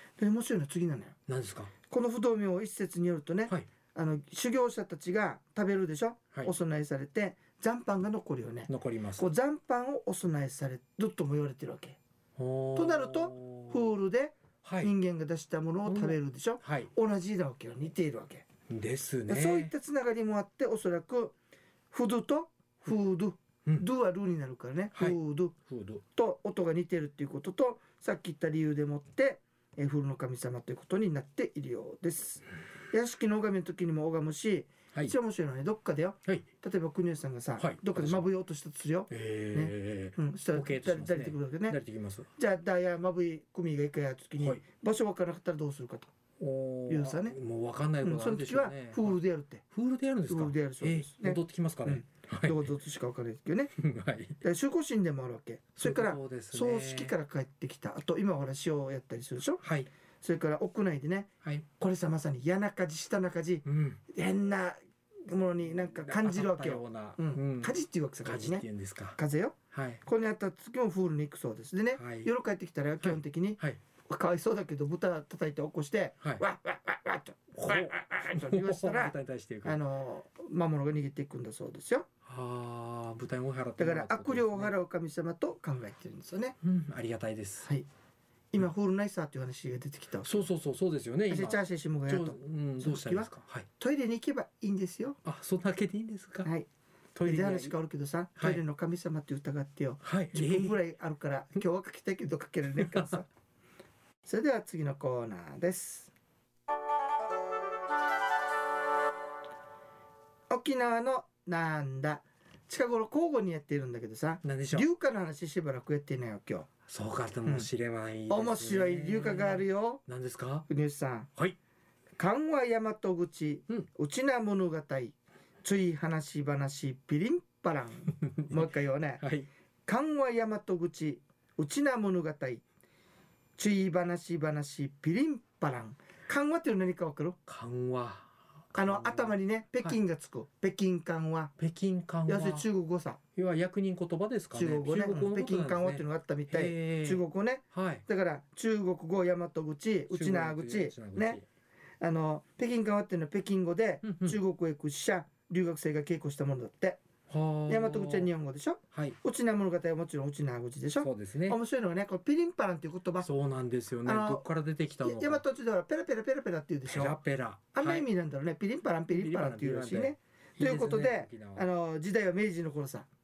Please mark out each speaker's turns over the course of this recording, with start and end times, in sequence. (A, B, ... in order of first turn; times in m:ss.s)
0:00.2-0:01.2 A
0:01.3-0:01.7 B
0:01.9-0:12.0 A
0:08.7-0:09.3 B
0:12.4-0:13.9 B
0:12.8-0:18.4 A
0:14.6-0:14.9 B
0:15.8-0:16.9 B
0:18.7-0:19.7 B
0:19.3-0:21.3 A
0:21.9-0:25.5 A
0:24.9-0:26.0 B
0:26.1-0:41.8 A
0:37.6-0:38.3 B
0:39.1-0:42.3 B
0:42.4-0:46.1 A
0:46.4-0:49.2 B
0:46.9-0:47.4 A
0:48.0-0:49.6 A
0:49.7-0:52.7 B
0:50.3-0:53.7 A
0:53.7-0:54.4 B
0:54.4-0:59.6 A
0:55.8-0:57.1 B
0:59.6-0:59.9 B
1:00.2-1:22.1 A
1:01.4-1:01.7 B
1:03.6-1:04.0 B
1:06.0-1:09.2 B
1:09.7-1:10.0 B
1:11.9-1:12.3 B
1:13.0-1:13.8 B
1:17.5-1:19.8 B
1:22.2-1:24.7 B
1:23.8-1:26.6 A
1:26.6-1:27.7 B
1:28.5-1:30.4 A
1:30.2-1:33.7 B
1:31.3-1:35.2 A
1:35.2-1:36.5 B
1:37.1-1:37.7 B
1:37.2-1:43.3 A
1:38.4-1:38.6 B
1:40.0-1:40.8 B
1:42.7-1:43.2 B
1:44.2-1:46.1 A
1:50.5-1:56.7 A
1:54.4-1:54.9 B
1:56.9-2:00.7 B
1:58.3-2:00.0 A
2:00.7-2:01.3 A
2:02.2-2:09.2 A
2:08.1-2:09.5 B
2:09.8-2:12.6 A
2:13.6-2:17.4 A
2:17.5-2:20.0 B
2:18.7-2:21.5 A
2:21.6-2:22.7 B
2:22.3-2:23.2 A
2:23.4-2:28.0 B
2:24.5-2:31.4 A
2:30.1-2:31.4 B
2:32.0-2:37.0 A
2:34.0-2:34.4 B
2:37.3-2:38.3 B
2:37.7-2:43.3 A
2:38.9-2:39.2 B
2:41.0-2:41.6 B
2:43.2-2:45.4 B
2:44.0-2:44.4 A
2:45.0-2:47.2 A
2:46.8-2:48.1 B
2:47.7-2:53.1 A
2:49.1-2:51.6 B